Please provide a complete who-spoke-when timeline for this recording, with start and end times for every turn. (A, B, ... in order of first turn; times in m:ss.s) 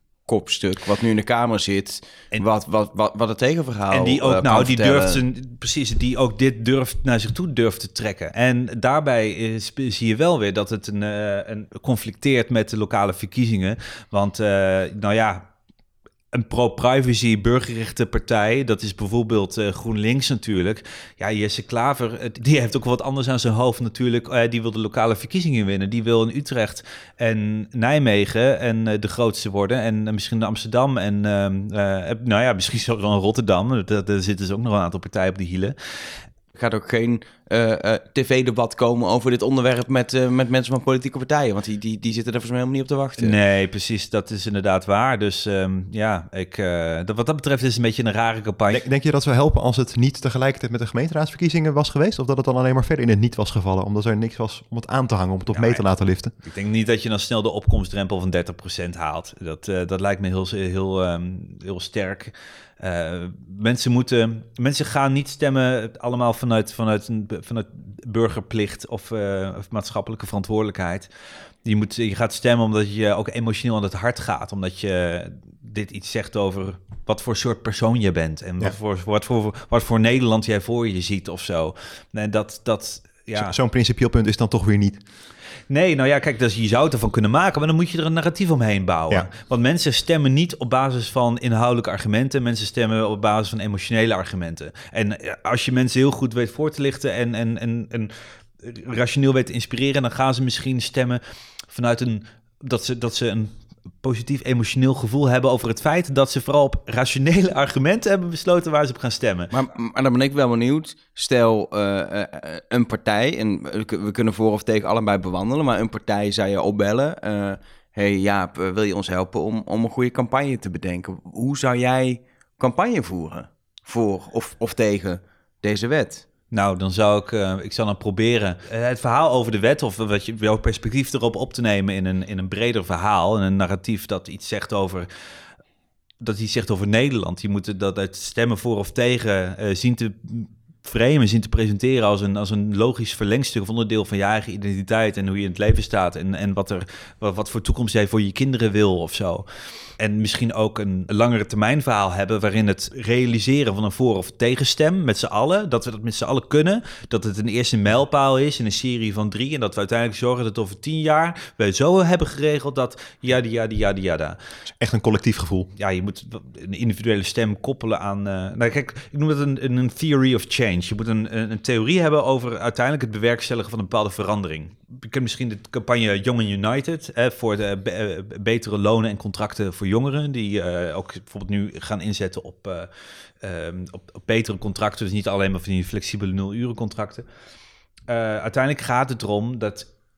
0:00.3-0:05.2 A
0:03.9-0:15.5 B
0:16.3-0:35.8 B
0:36.6-0:43.4 A
0:43.2-0:48.8 B
0:48.7-0:56.3 C
0:55.5-0:55.8 B
0:56.4-1:11.1 B
1:11.6-1:23.5 B
1:23.4-1:25.0 C
1:25.7-1:41.2 B
1:41.7-1:49.5 B
1:49.5-2:06.2 A
2:06.5-2:15.1 B
2:16.2-2:29.5 B
2:30.0-2:44.4 B
2:44.8-2:45.7 C
2:45.8-3:02.9 B
3:03.4-3:07.2 B
3:08.1-3:09.9 B